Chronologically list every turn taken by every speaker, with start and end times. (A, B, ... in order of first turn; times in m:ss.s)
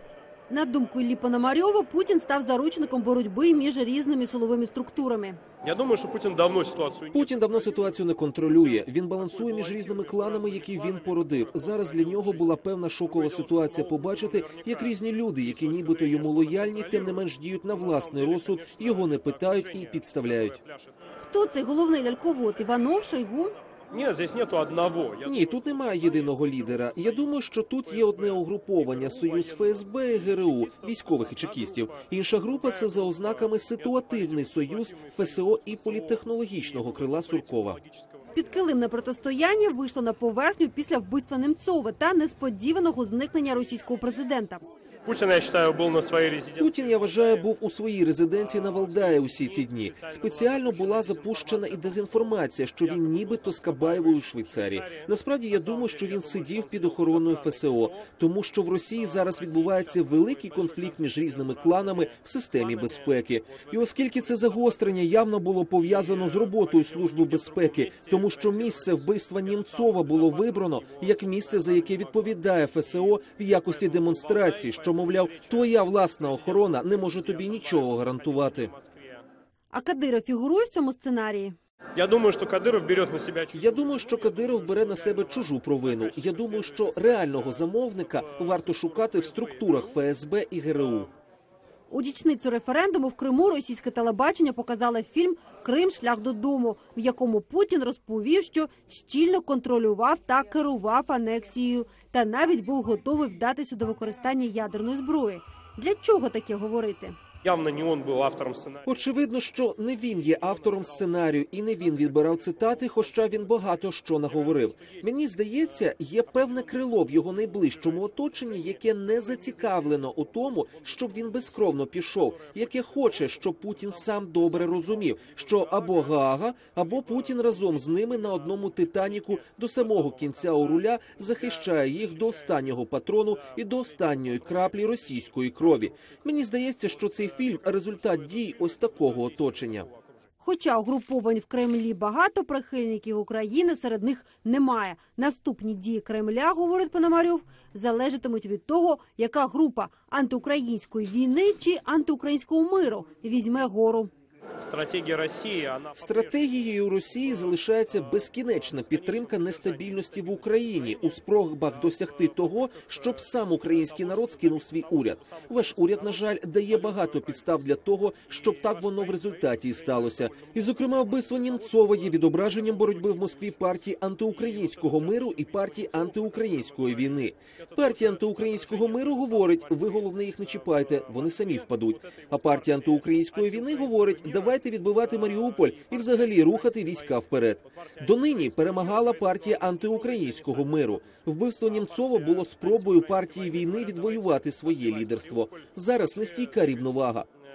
0:00.5-0:05.4 A
0:05.6-0:07.6 B
0:07.1-0:20.6 C
0:09.2-0:20.9 B
0:21.2-0:23.6 A
0:23.9-0:38.2 B
0:25.2-0:37.8 C
0:38.3-0:44.6 A
0:45.0-0:47.5 B
0:46.6-1:18.7 C
0:48.4-0:58.1 B
0:58.9-1:05.0 B
1:05.8-1:12.9 B
1:13.7-1:19.2 B
1:19.7-1:21.6 A
1:21.9-1:27.6 B
1:23.5-1:31.1 C
1:28.2-1:29.8 B
1:31.9-1:47.2 A
1:47.4-1:48.8 B
1:48.8-2:19.9 C
1:50.4-1:51.1 B
1:52.0-1:53.4 B
1:54.2-1:56.9 B
1:57.6-2:01.6 B
2:02.3-2:06.2 B
2:06.9-2:08.2 B
2:09.8-2:10.8 B
2:11.4-2:12.6 B
2:17.0-2:20.0 B
2:20.4-2:34.1 A
2:34.6-2:36.5 B
2:35.9-3:17.3 C
2:38.7-3:11.1 B
3:11.6-3:17.0 B